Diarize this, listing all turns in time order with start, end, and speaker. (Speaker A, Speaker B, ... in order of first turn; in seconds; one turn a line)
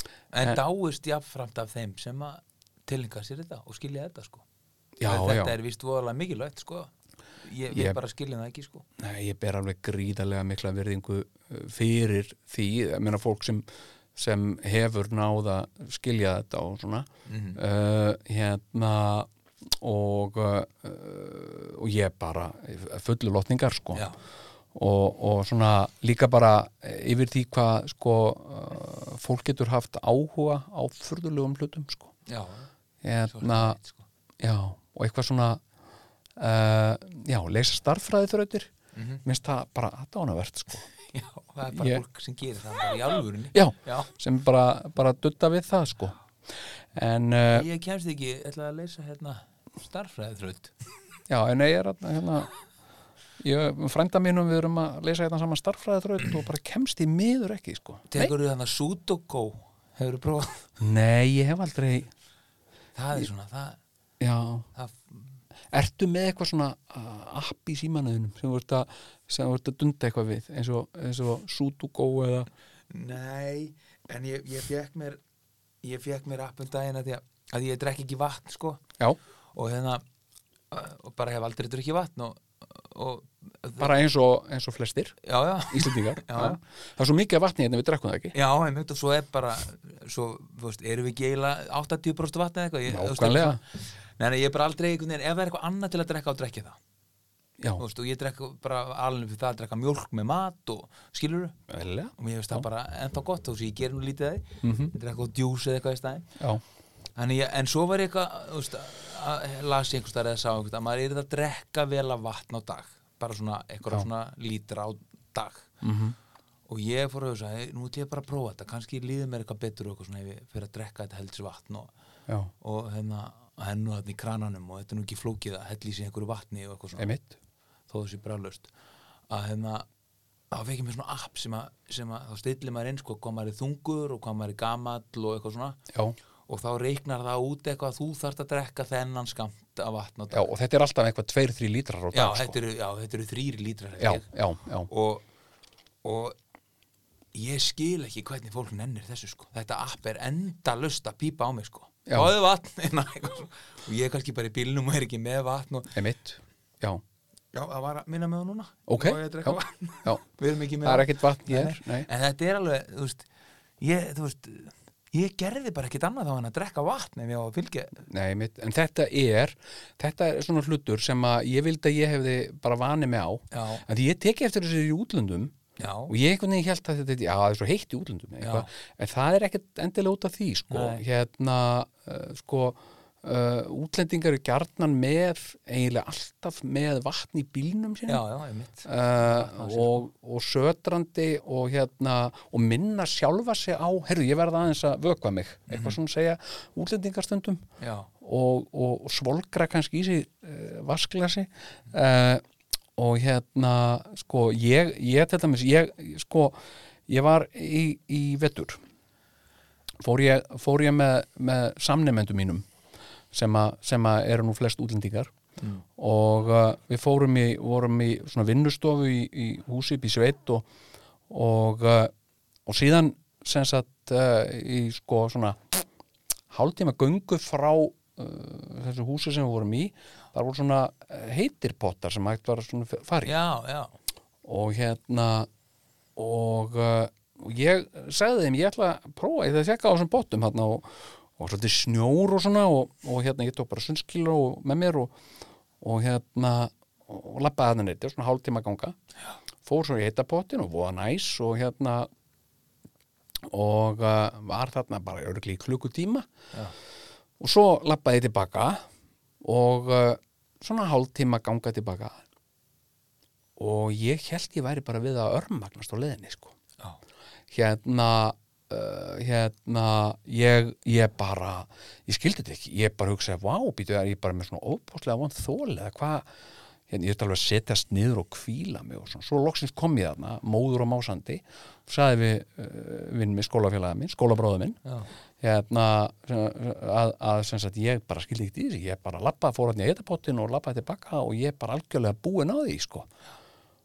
Speaker A: 0.3-4.4
Speaker B: 5.0-5.5
Speaker A: 5.0-8.8
Speaker B: 7.7-8.0
Speaker B: 9.0-24.1
Speaker A: 17.3-17.6
Speaker B: 24.7-32.1
Speaker A: 32.3-32.7
Speaker B: 33.0-33.8
Speaker A: 33.3-34.1
Speaker B: 34.4-35.6
Speaker B: 36.4-38.7
Speaker A: 39.0-39.2
Speaker B: 39.2-40.9
Speaker A: 41.0-44.1
Speaker B: 41.7-42.0
Speaker B: 43.5-46.2
Speaker B: 46.9-47.7
Speaker A: 47.5-50.7
Speaker B: 51.3-52.5
Speaker B: 53.4-58.3
Speaker A: 58.1-60.7
Speaker B: 60.8-62.1
Speaker A: 63.0-63.8
Speaker B: 64.2-64.7
Speaker A: 64.8-65.3
Speaker B: 65.7-72.5
Speaker A: 72.9-75.2
Speaker A: 75.8-78.8
Speaker A: 79.5-80.0
Speaker A: 80.7-83.9
Speaker B: 83.8-88.3
Speaker A: 85.2-86.6
Speaker A: 88.3-96.8
Speaker B: 92.9-93.6
Speaker A: 97.8-101.6
Speaker B: 101.7-102.7
Speaker A: 102.2-106.3
Speaker B: 104.6-104.9
Speaker A: 107.2-115.7
Speaker B: 115.8-116.2
Speaker A: 116.7-121.9
Speaker A: 122.6-127.1
Speaker B: 127.0-127.4
Speaker A: 127.9-128.7
Speaker A: 129.3-129.9
Speaker A: 130.5-135.8
Speaker B: 135.9-136.2
Speaker A: 136.5-140.5
Speaker B: 140.3-142.6
Speaker A: 142.1-144.3
Speaker B: 144.0-144.9
Speaker A: 144.9-145.2
Speaker A: 146.0-146.4
Speaker A: 147.3-156.0
Speaker B: 152.1-152.3
Speaker B: 155.9-157.0
Speaker A: 157.5-163.3
Speaker B: 158.9-160.2
Speaker B: 160.8-162.1
Speaker A: 163.8-168.1
Speaker B: 168.1-175.5
Speaker A: 173.5-173.8
Speaker A: 175.8-176.1
Speaker B: 176.1-188.2
Speaker A: 178.4-178.7
Speaker A: 180.7-181.0
Speaker A: 188.1-190.1
Speaker B: 188.8-197.6
Speaker A: 195.7-196.0
Speaker A: 197.8-198.1
Speaker B: 198.2-202.4
Speaker B: 203.0-208.8
Speaker B: 210.0-212.7
Speaker B: 213.3-215.3
Speaker A: 215.6-215.8
Speaker B: 216.0-220.7
Speaker B: 221.3-222.1
Speaker B: 222.7-225.8
Speaker B: 226.5-233.4
Speaker A: 233.2-233.9
Speaker B: 234.4-235.5
Speaker B: 236.2-245.1
Speaker B: 245.8-249.0
Speaker B: 249.7-252.1
Speaker B: 253.5-256.3
Speaker B: 257.4-258.9
Speaker B: 259.4-262.2
Speaker B: 263.6-266.5
Speaker B: 267.5-276.3
Speaker B: 276.9-284.8
Speaker B: 285.4-293.1